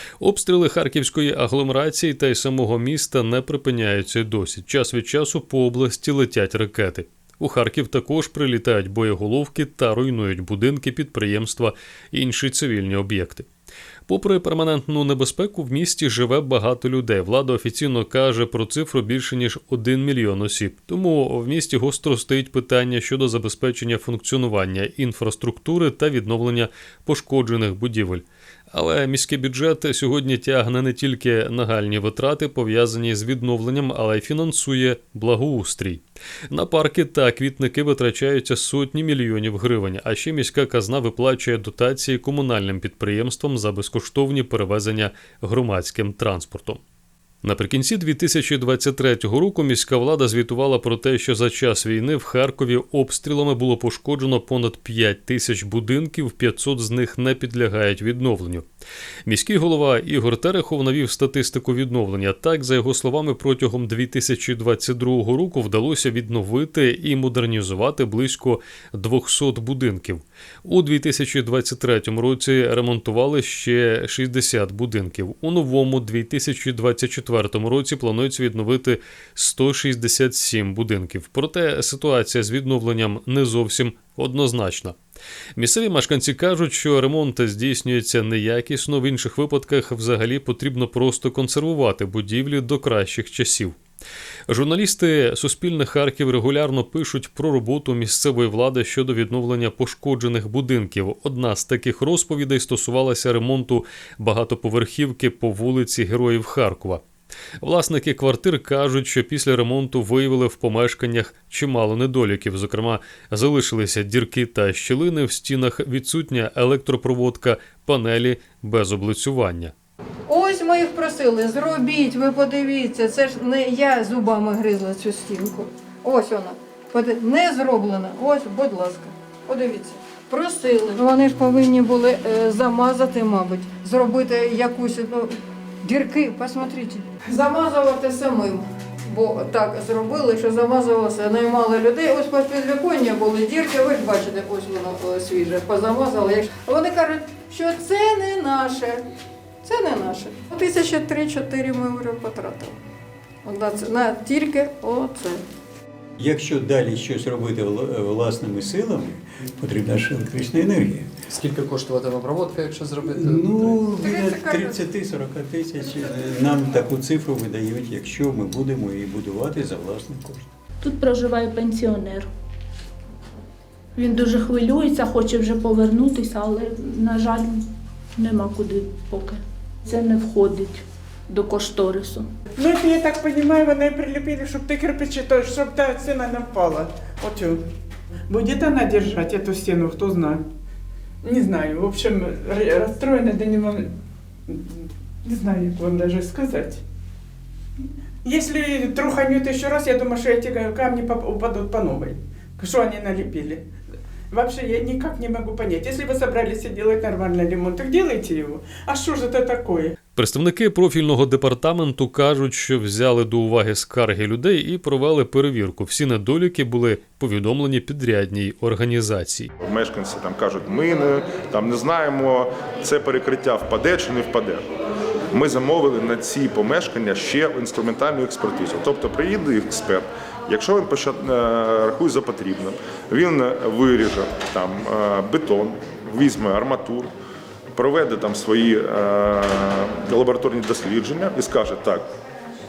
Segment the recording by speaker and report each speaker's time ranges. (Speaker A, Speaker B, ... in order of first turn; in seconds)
Speaker A: 0.2-13.5, 14.1-46.8, 47.4-58.6, 59.2-85.0, 85.5-93.8, 94.5-107.0, 107.6-119.7, 210.1-219.5
Speaker B: 120.3-149.0, 149.6-152.8, 153.4-155.4, 164.0-164.8
Speaker C: 156.2-161.1, 163.0-170.5
Speaker D: 161.3-163.7
Speaker E: 170.8-172.3, 173.9-177.6, 178.2-182.2
Speaker F: 182.5-187.6, 188.3-190.4, 191.2-193.9, 194.5-196.8, 198.2-203.6, 204.3-209.9
Speaker G: 219.6-224.7, 225.3-237.1, 237.7-242.1